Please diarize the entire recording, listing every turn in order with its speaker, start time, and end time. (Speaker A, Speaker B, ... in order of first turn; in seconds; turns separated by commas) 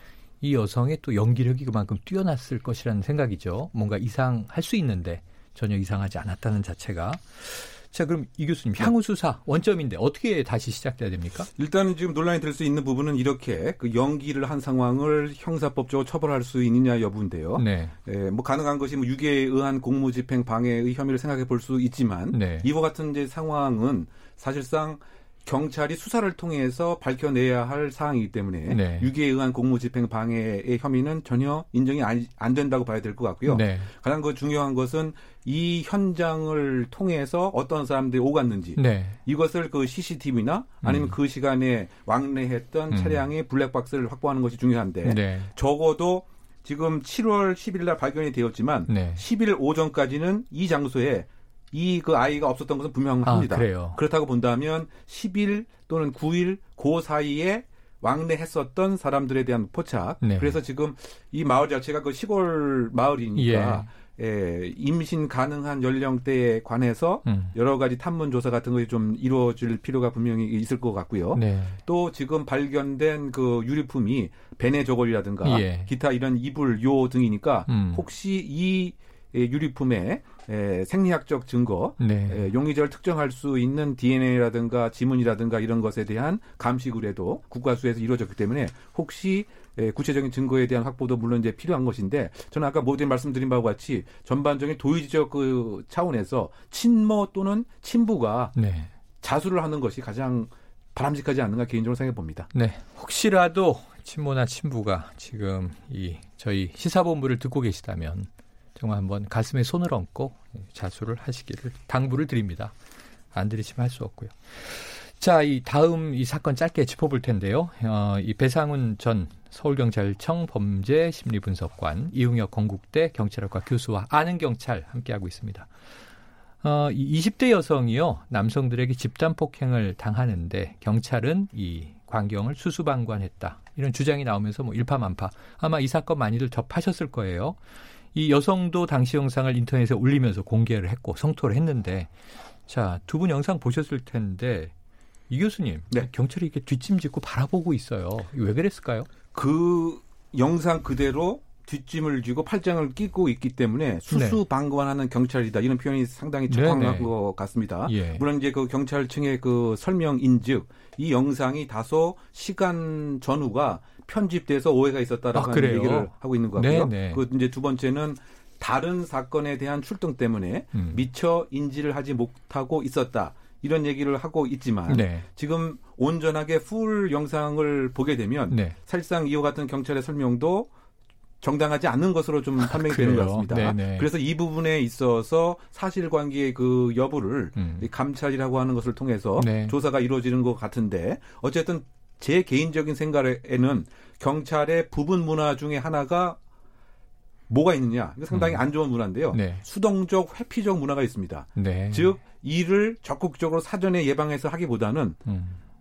Speaker A: 0.4-11.5, Speaker B: 11.6-98.5, Speaker A: 17.6-17.9, Speaker A: 22.3-22.7, Speaker A: 28.7-29.1, Speaker A: 33.4-33.9, Speaker A: 38.8-39.2, Speaker A: 40.8-41.1, Speaker A: 42.9-43.3, Speaker A: 45.0-45.5, Speaker A: 48.9-49.2, Speaker A: 53.2-54.0, Speaker A: 60.2-60.6, Speaker A: 63.3-63.9, Speaker A: 67.2-67.5, Speaker A: 71.3-71.8, Speaker A: 75.4-75.9, Speaker A: 77.7-78.0, Speaker A: 82.0-82.5, Speaker A: 98.5-98.9, Speaker B: 99.2-102.5, Speaker A: 102.5-112.7, Speaker A: 113.3-125.7, Speaker A: 126.6-137.6, Speaker A: 138.1-142.1, Speaker A: 142.7-144.7, Speaker A: 145.3-149.1, Speaker B: 149.3-180.7, Speaker A: 154.1-154.4, Speaker A: 156.5-157.1, Speaker A: 157.8-158.2, Speaker A: 165.3-167.2, Speaker A: 170.7-171.0, Speaker A: 174.9-175.2, Speaker A: 178.5-178.8, Speaker B: 181.4-196.4, Speaker A: 182.6-184.1, Speaker A: 187.6-187.9, Speaker A: 189.4-189.7, Speaker B: 197.5-205.2, Speaker A: 198.3-198.6, Speaker A: 199.3-199.6, Speaker A: 201.6-202.1, Speaker A: 205.3-205.6